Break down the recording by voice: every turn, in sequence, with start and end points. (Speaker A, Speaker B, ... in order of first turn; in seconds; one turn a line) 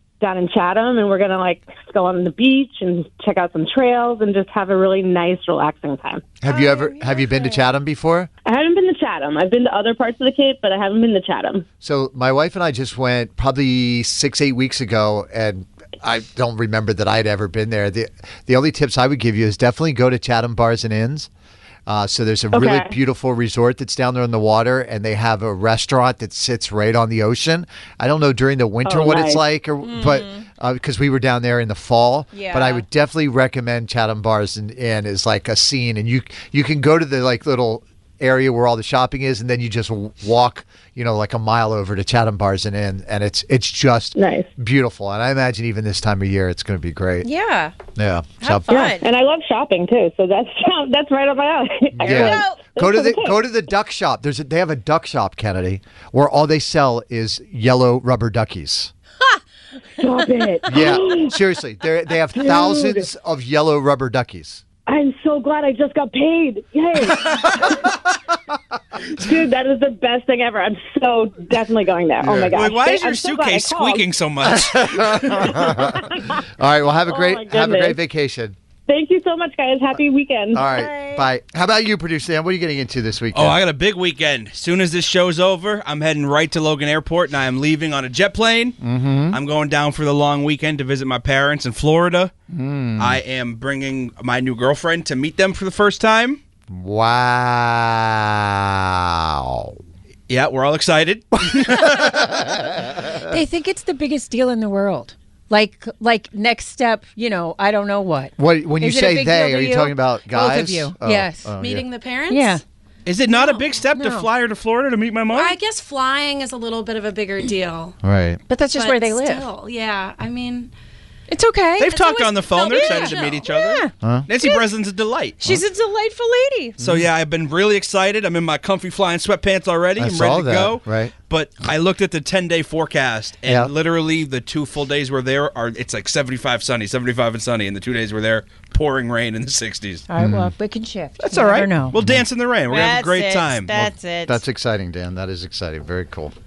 Speaker A: 0.2-6.3
Speaker B: 6.4-8.3
Speaker C: 6.4-7.7
Speaker A: 8.5-11.7
Speaker B: 11.8-21.3
Speaker B: 21.9-47.3
Speaker A: 22.5-22.9
Speaker A: 28.9-29.4
Speaker C: 29.8-30.4
Speaker C: 32.3-32.9
Speaker A: 44.2-44.5
Speaker C: 47.2-47.8
Speaker B: 48.0-48.9
Speaker C: 48.4-49.1
Speaker A: 48.7-53.4
Speaker B: 52.0-58.9
Speaker C: 52.0-52.8
Speaker A: 60.0-61.3
Speaker B: 60.7-64.6
Speaker A: 62.4-63.0
Speaker A: 64.9-67.7
Speaker A: 69.2-74.0
Speaker B: 72.2-72.7
Speaker D: 72.5-75.7
Speaker B: 74.5-78.6
Speaker A: 75.7-76.2
Speaker A: 77.1-78.0
Speaker A: 78.9-80.6
Speaker B: 80.5-83.6
Speaker C: 80.5-81.2
Speaker D: 83.3-88.8
Speaker B: 88.8-89.4
Speaker D: 89.3-92.3
Speaker B: 92.5-93.2
Speaker D: 93.0-96.4
Speaker B: 96.7-99.8
Speaker D: 100.3-102.4
Speaker B: 102.1-102.6
Speaker C: 102.8-111.5
Speaker B: 108.4-111.9
Speaker E: 111.6-112.6
Speaker C: 112.3-112.6
Speaker D: 113.1-115.6
Speaker E: 113.3-113.7
Speaker C: 113.9-114.3
Speaker E: 115.3-117.9
Speaker B: 118.0-118.4
Speaker C: 118.5-119.5
Speaker E: 118.7-120.7
Speaker C: 121.3-121.9
Speaker D: 121.8-125.5
Speaker E: 121.8-123.7
Speaker C: 122.7-124.7
Speaker B: 124.0-124.3
Speaker C: 125.4-126.8
Speaker D: 126.8-140.1
Speaker B: 126.8-127.1
Speaker B: 130.0-131.1
Speaker B: 133.4-133.7
Speaker C: 140.1-142.0
Speaker B: 140.2-140.5
Speaker D: 141.2-143.9
Speaker B: 142.0-142.2
Speaker C: 142.7-144.4
Speaker B: 144.2-146.3